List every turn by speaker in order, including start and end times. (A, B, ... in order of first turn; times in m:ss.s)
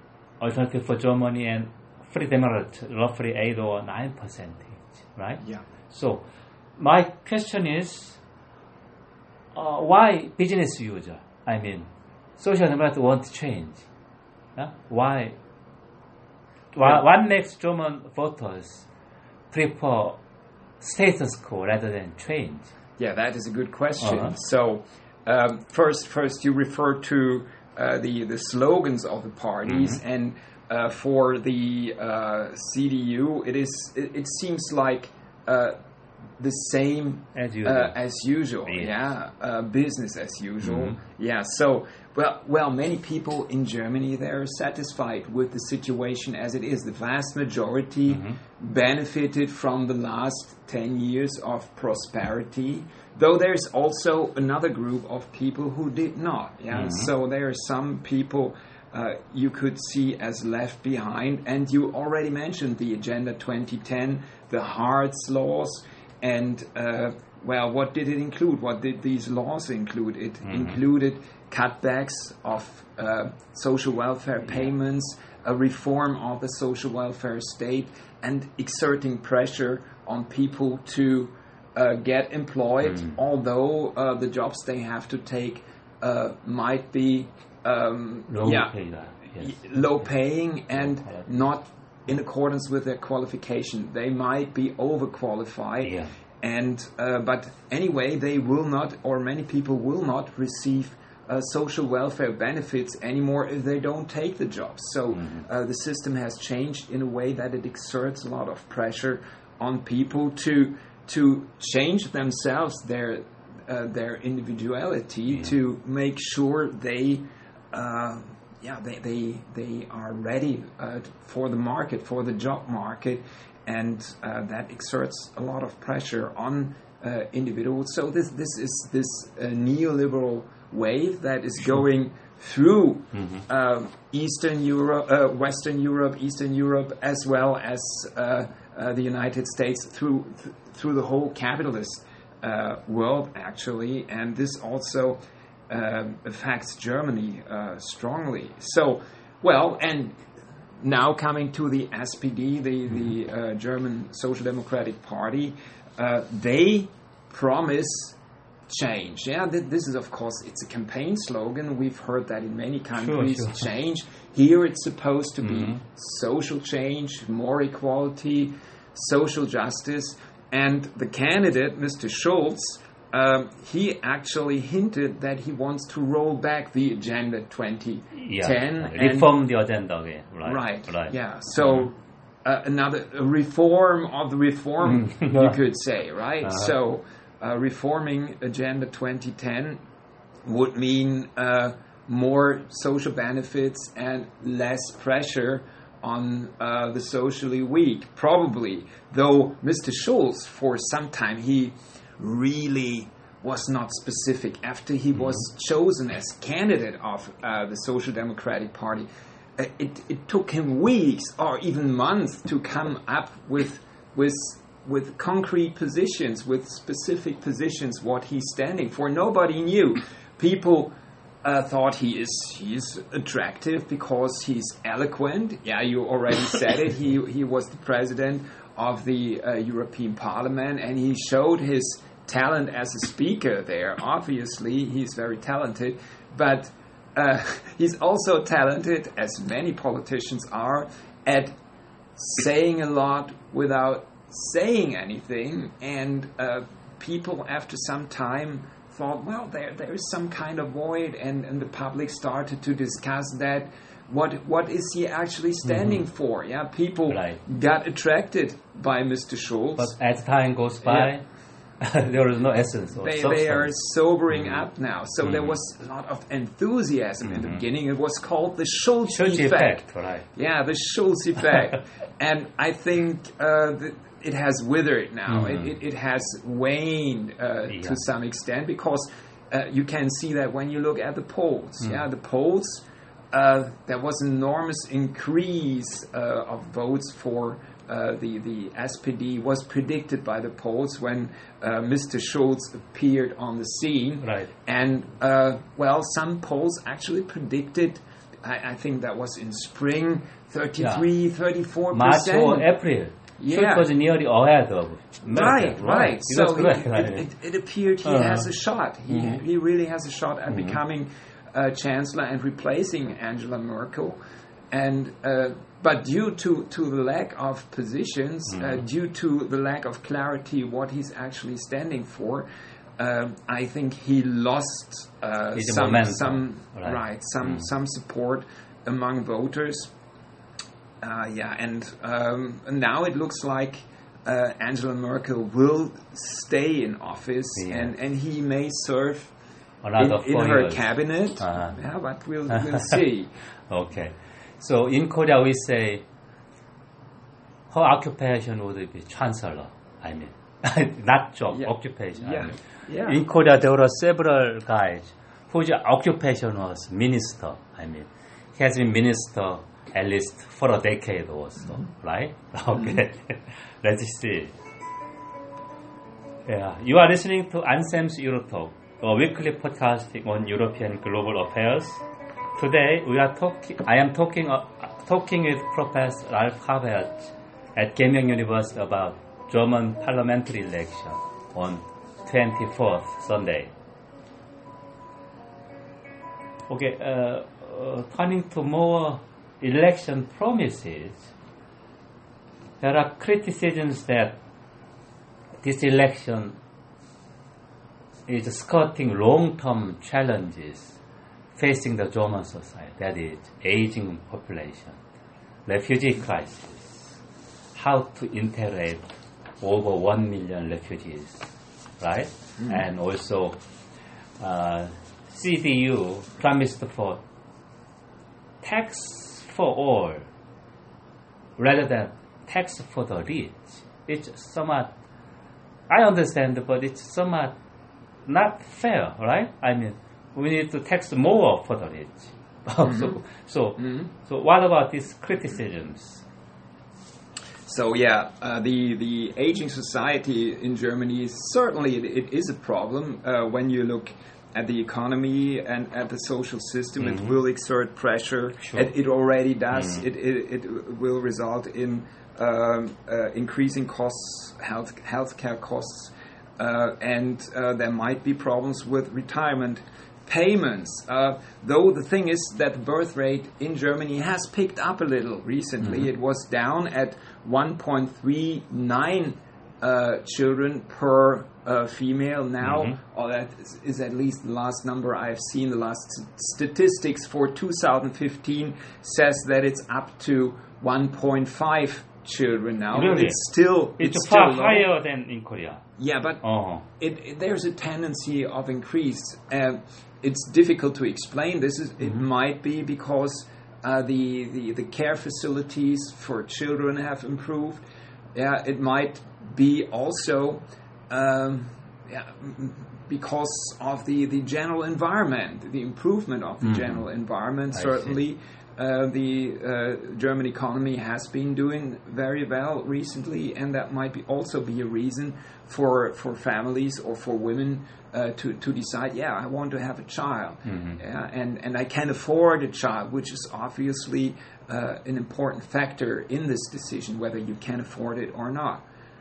0:00.4-0:06.2 A
0:06.8-0:08.2 A
0:09.5-0:13.9 A
0:14.6-0:15.4 A
0:16.7-0:18.9 A
0:19.5-0:20.2 A
0:20.8-0:22.7 A
0:23.0-0:35.8 B
0:24.0-0:24.3 A
0:29.7-0:30.0 A
0:36.4-1:28.8 B
0:37.4-0:37.9 A
0:38.7-0:39.0 A
0:40.6-0:41.0 A
0:48.1-0:48.4 A
0:56.7-0:57.1 A
1:10.4-1:10.8 A
1:28.3-1:29.7 A
1:29.4-2:30.2 B
1:31.0-1:31.3 A
1:35.8-1:36.1 A
1:45.2-1:45.5 A
2:13.1-2:13.4 A
2:30.8-2:38.2 B
2:38.7-2:59.3 B
2:43.0-2:43.7 A
2:45.4-2:45.8 A
2:58.2-3:01.9 A
3:00.4-3:09.8 B
3:04.8-3:05.6 A
3:06.4-3:06.8 A
3:10.4-3:40.9 B
3:41.4-4:01.5 B
4:02.2-4:19.9 B
4:15.7-4:16.0 A
4:17.1-4:17.4 A
4:19.8-4:21.2 A
4:20.8-4:21.1 B
4:21.8-4:23.7 A
4:23.0-5:02.7 B
4:27.3-4:27.6 A
4:29.1-4:30.3 A
4:35.3-4:35.7 A
4:37.7-4:38.0 A
4:54.2-4:54.5 A
5:00.8-5:01.1 A
5:01.9-5:07.3 A
5:03.4-5:03.9 B
5:05.3-5:14.2 B
5:08.0-5:08.5 A
5:10.5-5:10.8 A
5:14.7-5:22.5 B
5:18.5-5:18.8 A
5:23.0-5:29.9 B
5:25.6-5:27.6 A
5:31.0-5:39.3 B
5:37.6-5:37.9 A
5:39.8-5:41.8 A
5:40.0-5:43.3 B
5:42.5-5:42.9 A
5:43.7-5:46.0 A
5:47.7-6:04.6 A
5:51.5-5:53.2 B
6:06.5-6:12.0 A
6:12.6-6:23.7 A
6:26.7-6:31.3 A
6:32.8-6:34.4 A
6:35.6-6:36.6 A
6:38.3-6:41.0 A
6:41.6-6:45.0 A
6:45.7-6:47.1 A
6:47.8-6:51.5 A
6:52.0-6:53.6 A
6:54.4-6:57.2 A
6:58.6-7:00.3 A
7:01.6-7:04.9 A
7:05.9-7:07.6 A
7:08.3-7:16.2 A
7:12.8-7:13.2 B
7:13.8-7:14.1 B
7:17.7-8:04.9 B
7:27.0-7:27.4 A
7:28.6-7:28.9 A
7:52.6-7:53.0 A
8:02.9-8:03.4 A
8:04.0-8:05.8 A
8:06.0-8:48.8 B
8:06.4-8:06.8 A
8:27.7-8:28.2 A
8:40.7-8:41.0 A